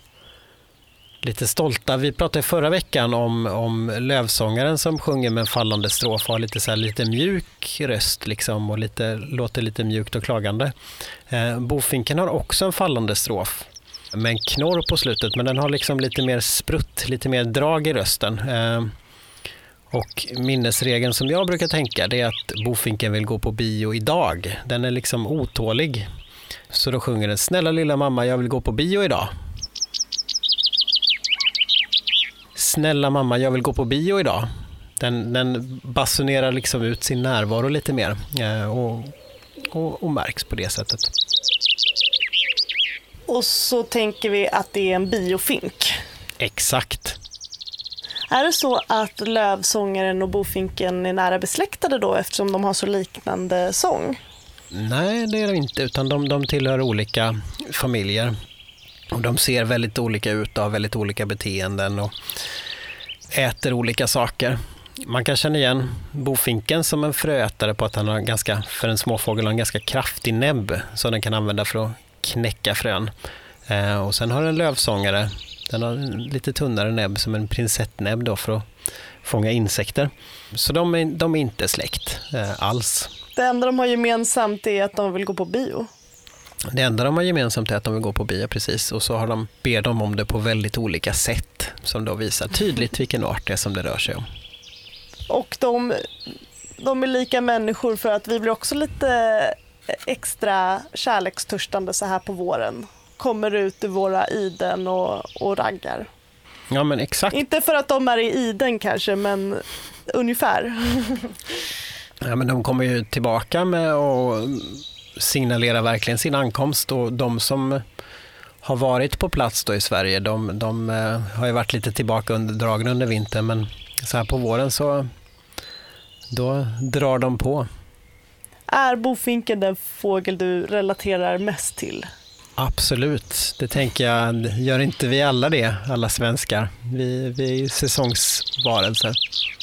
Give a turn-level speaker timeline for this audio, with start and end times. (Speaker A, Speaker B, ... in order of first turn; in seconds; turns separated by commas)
Speaker A: 1.2-10.7, Speaker A: 11.3-18.9, Speaker A: 19.9-26.0, Speaker A: 26.7-29.3, Speaker A: 32.5-34.5, Speaker A: 35.0-39.1, Speaker A: 39.7-41.1, Speaker B: 43.3-46.0, Speaker A: 46.4-47.2, Speaker B: 48.3-54.2, Speaker A: 54.7-58.3, Speaker A: 59.1-62.1, Speaker A: 63.3-73.1, Speaker A: 73.7-78.6, Speaker A: 79.2-83.1, Speaker B: 83.3-85.9, Speaker A: 86.7-94.2, Speaker B: 95.3-96.0, Speaker B: 96.8-106.1, Speaker A: 106.7-107.4, Speaker B: 107.3-111.4, Speaker A: 112.2-117.8, Speaker A: 118.6-125.0, Speaker A: 126.3-127.7, Speaker B: 128.7-132.1, Speaker A: 132.6-139.2